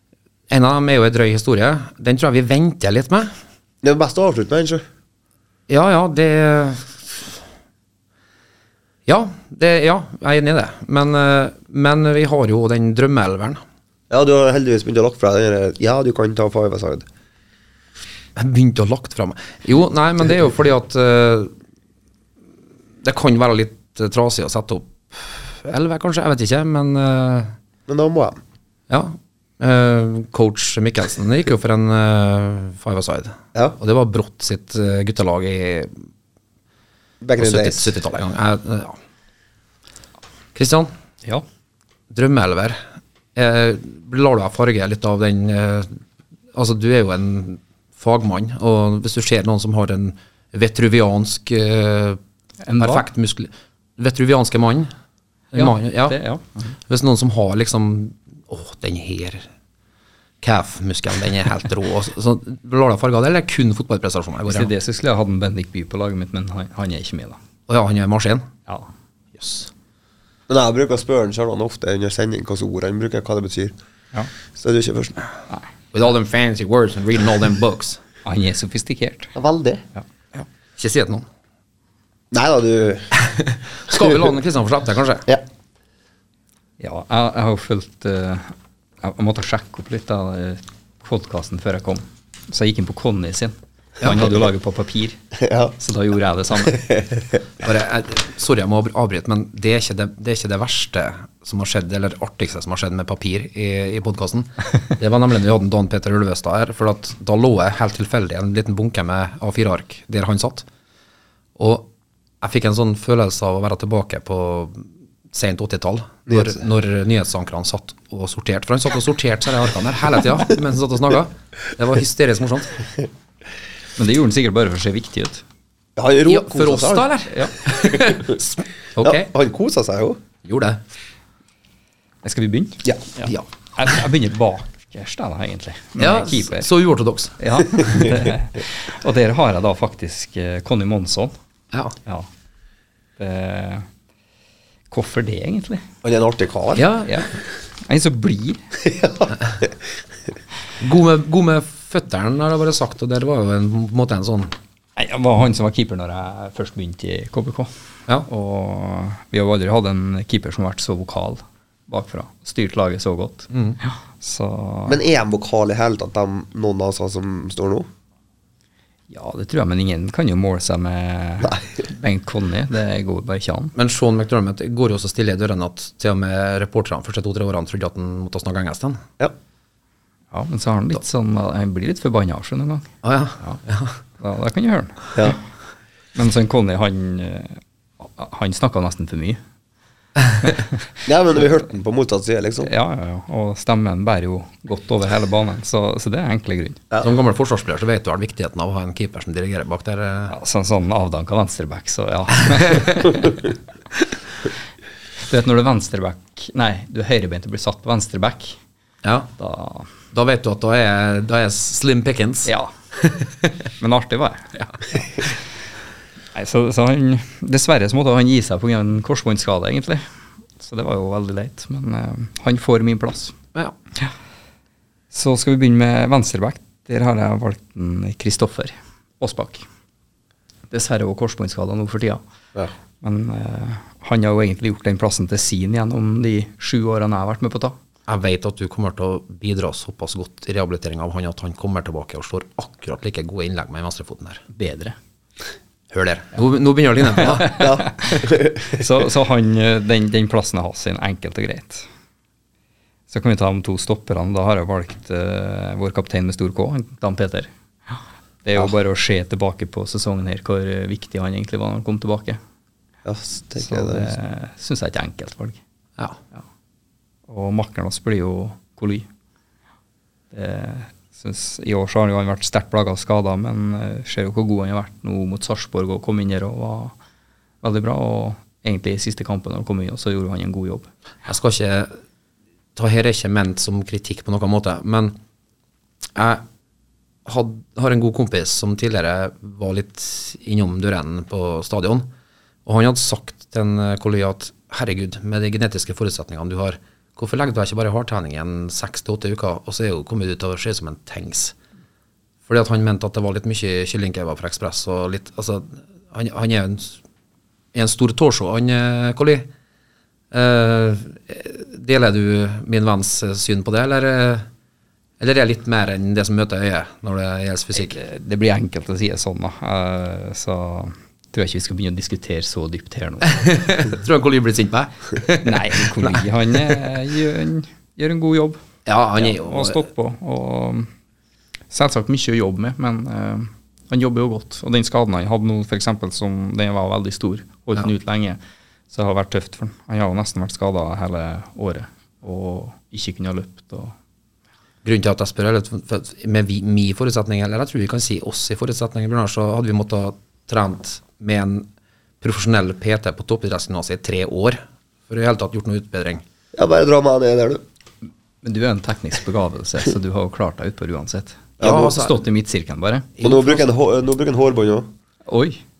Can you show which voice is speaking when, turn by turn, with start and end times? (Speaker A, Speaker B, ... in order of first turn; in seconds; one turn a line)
Speaker A: 0.5-3.3
Speaker B: 3.8-4.8
Speaker A: 5.7-7.0
Speaker A: 9.1-13.6
Speaker B: 14.1-17.1
Speaker A: 18.4-21.5
Speaker A: 23.0-27.5
Speaker B: 27.9-28.4
Speaker A: 28.9-35.9
Speaker B: 37.2-37.9
Speaker A: 37.4-39.0
Speaker A: 40.5-40.9
Speaker A: 42.1-42.8
Speaker A: 43.3-46.0
Speaker A: 46.5-52.2
Speaker C: 52.6-53.0
Speaker A: 52.8-54.9
Speaker A: 55.5-56.2
Speaker C: 55.5-56.7
Speaker A: 56.9-59.5
Speaker A: 60.4-64.7
Speaker C: 64.5-67.4
Speaker A: 67.7-68.5
Speaker A: 69.4-69.7
Speaker B: 70.5-73.7
Speaker B: 74.5-75.2
Speaker A: 75.9-78.0
Speaker C: 78.2-79.3
Speaker B: 79.3-79.8
Speaker C: 80.0-80.4
Speaker A: 80.8-81.2
Speaker B: 82.3-83.1
Speaker A: 83.4-85.3
Speaker C: 86.8-95.2
Speaker B: 95.4-95.7
Speaker C: 95.8-96.9
Speaker B: 96.7-97.2
Speaker A: 97.6-110.7
Speaker A: 111.6-111.9
Speaker A: 112.4-122.8
Speaker B: 116.3-116.5
Speaker C: 124.0-125.4
Speaker B: 126.0-127.1
Speaker A: 126.2-129.3
Speaker C: 127.3-127.5
Speaker B: 129.0-130.2
Speaker A: 130.4-130.8
Speaker C: 132.2-136.7
Speaker A: 136.0-137.9
Speaker C: 137.4-141.3
Speaker C: 143.2-143.9
Speaker C: 144.9-145.8
Speaker B: 146.0-146.9
Speaker A: 146.8-147.2
Speaker C: 147.8-148.6
Speaker B: 148.8-149.7
Speaker A: 150.8-154.5
Speaker C: 154.9-157.7
Speaker C: 158.2-165.0
Speaker A: 163.5-163.8
Speaker B: 164.9-167.9
Speaker C: 169.1-173.7
Speaker B: 171.4-171.7
Speaker A: 173.8-179.0
Speaker C: 180.3-182.9
Speaker A: 183.0-183.9
Speaker C: 184.2-185.4
Speaker C: 186.1-189.4
Speaker C: 190.4-190.9
Speaker B: 191.1-192.7
Speaker C: 192.6-196.8
Speaker A: 197.0-200.3
Speaker C: 200.3-203.5
Speaker C: 205.2-208.6
Speaker A: 209.0-209.3
Speaker C: 209.4-209.9
Speaker A: 210.1-212.5
Speaker C: 212.4-212.7
Speaker C: 213.8-214.5
Speaker C: 216.3-220.0
Speaker C: 220.6-223.3
Speaker C: 225.1-229.6
Speaker C: 230.7-232.2
Speaker C: 233.0-237.8
Speaker A: 238.1-244.4
Speaker C: 244.5-244.9
Speaker A: 245.9-247.6
Speaker C: 247.2-251.8
Speaker B: 247.4-248.8
Speaker C: 253.1-262.4
Speaker B: 263.0-264.1
Speaker C: 263.6-265.6
Speaker C: 267.3-269.1
Speaker C: 270.3-276.9
Speaker C: 277.6-280.9
Speaker A: 281.2-281.9
Speaker A: 282.8-285.2
Speaker A: 286.1-286.4
Speaker A: 287.2-292.1
Speaker A: 292.6-301.5
Speaker A: 302.5-307.0
Speaker A: 307.7-309.5
Speaker A: 310.3-314.5
Speaker A: 315.2-318.0
Speaker C: 317.7-323.5
Speaker A: 323.2-326.8
Speaker C: 325.4-328.6
Speaker A: 328.9-329.8
Speaker C: 329.1-330.9
Speaker C: 331.7-338.4
Speaker C: 338.9-343.9
Speaker A: 344.8-351.7
Speaker A: 352.2-356.2
Speaker B: 356.5-357.6
Speaker C: 358.4-363.3
Speaker B: 361.6-362.0
Speaker A: 361.6-362.1
Speaker A: 363.2-363.6
Speaker B: 363.2-364.9
Speaker C: 365.3-365.6